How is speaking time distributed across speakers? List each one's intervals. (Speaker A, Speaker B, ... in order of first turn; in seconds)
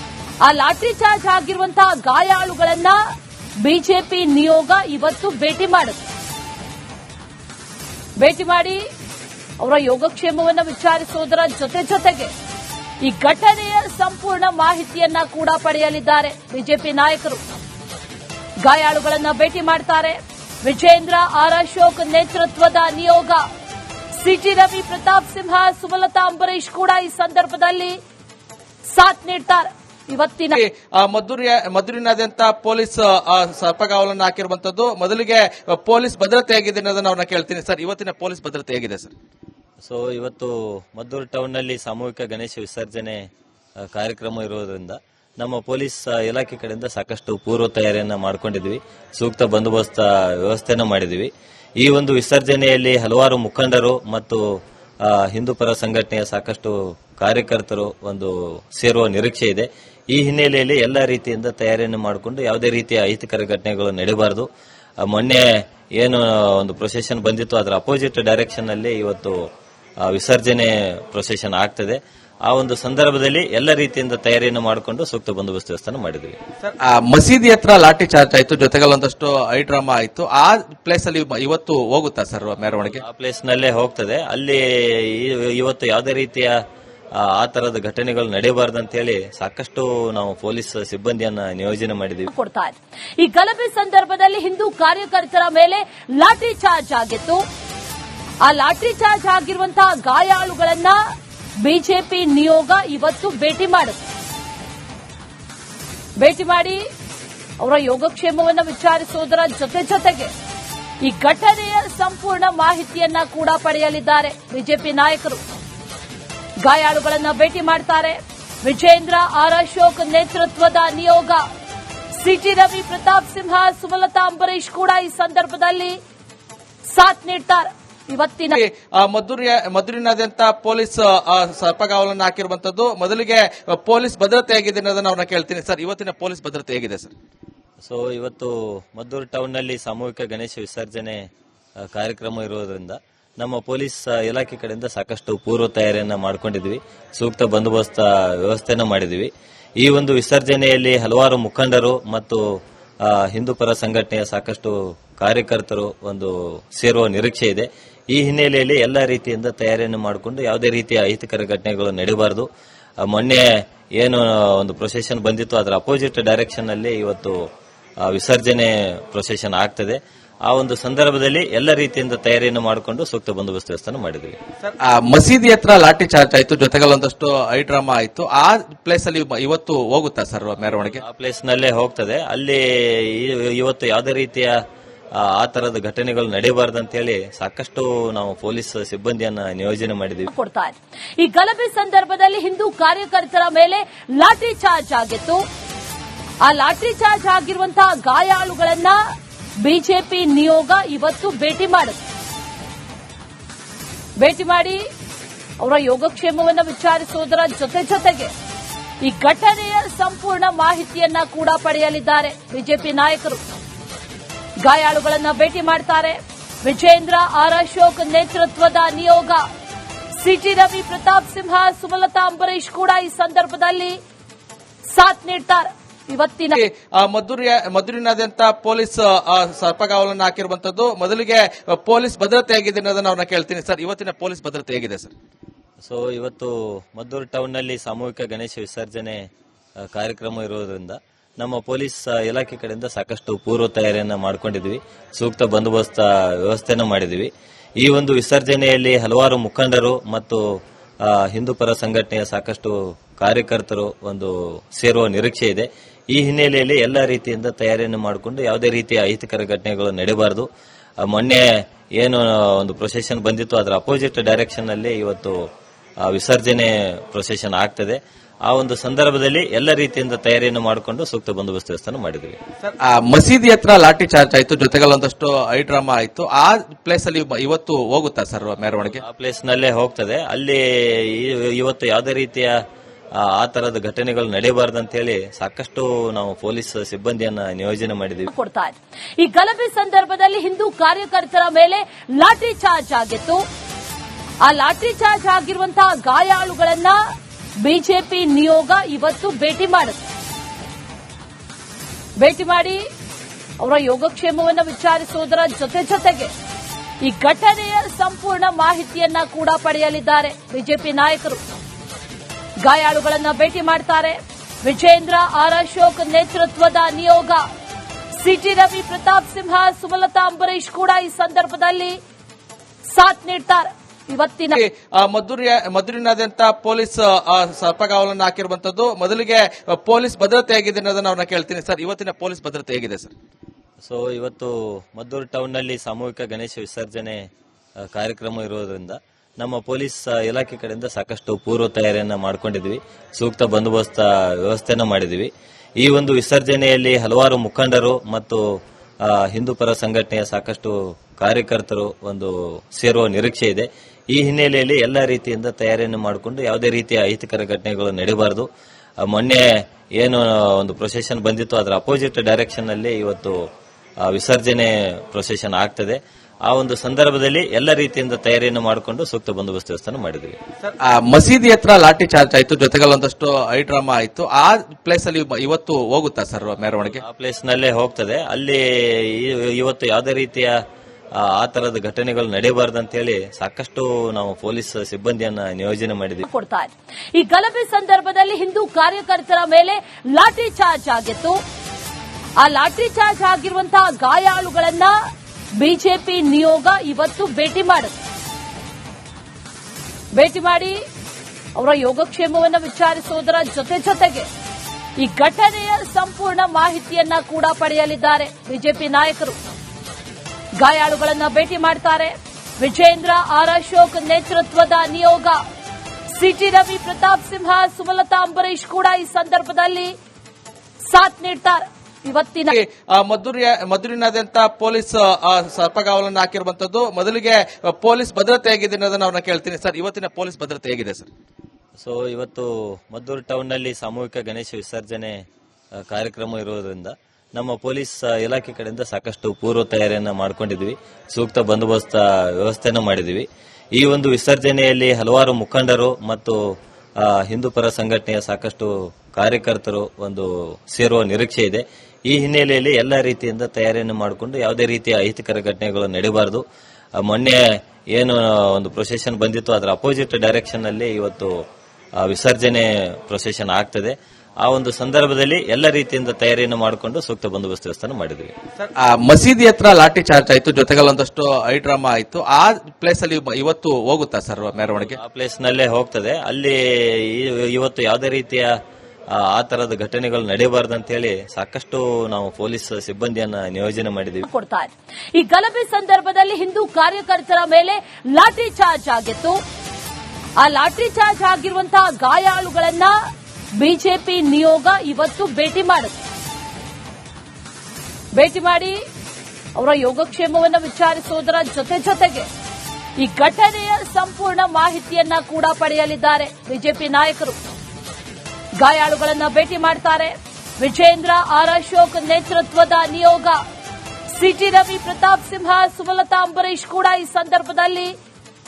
Speaker A: 0.4-3.0, 3.6-6.0, 8.2-8.8, 9.6-12.3, 13.0-17.4, 18.6-23.4, 24.1-28.0, 28.9-30.6, 92.2-97.4, 98.4-101.0, 101.6-104.0, 106.2-106.8, 107.6-110.3, 111.0-115.4, 116.6-121.4, 122.1-126.0, 126.8-128.6, 190.2-195.4, 196.4-199.0, 199.6-202.0, 204.2-204.8, 205.6-208.3, 209.0-213.4, 214.6-219.4, 220.1-224.0, 224.9-226.6, 288.2-293.4, 294.4-297.0, 297.6-300.0, 302.2-302.8, 303.6-306.3, 307.0-311.4, 312.6-317.4, 318.1-322.0, 322.9-324.6, 386.2-391.4, 392.4-394.9, 395.6-397.9, 400.1-400.8, 401.6-404.3, 405.0-409.4, 410.6-415.4, 416.1-419.9, 420.8-422.5, 484.2-489.4, 490.4-492.9, 493.6-496.0, 498.1-498.8, 499.6-502.3, 503.0-507.4, 508.6-513.4, 514.1-517.9
Speaker B: 30.6-39.1, 76.6-83.0, 128.6-137.1, 174.6-181.0, 226.6-235.1, 272.6-279.0, 324.6-333.1, 370.6-377.0, 422.5-431.1, 468.6-475.0
Speaker C: 39.8-43.2, 43.9-51.3, 51.8-54.4, 55.0-64.5, 65.1-65.5, 66.0-69.4, 70.0-76.4, 82.8-86.5, 87.2-92.3, 137.8-141.2, 141.9-149.3, 149.8-152.4, 153.0-162.4, 163.1-163.4, 164.0-167.4, 168.0-174.4, 180.9-184.5, 185.2-190.2, 235.8-239.2, 239.9-247.3, 247.8-250.4, 251.0-260.4, 261.1-261.4, 262.0-265.4, 266.0-272.4, 278.8-282.5, 283.2-288.2, 333.8-337.2, 337.9-345.3, 345.8-348.4, 349.0-358.4, 359.1-359.4, 360.0-363.4, 364.1-370.4, 376.8-380.5, 381.2-386.2, 431.8-435.1, 435.9-443.2, 443.8-446.4, 447.0-456.4, 457.0-457.4, 457.9-461.3, 462.0-468.3, 474.9-478.5, 479.1-484.2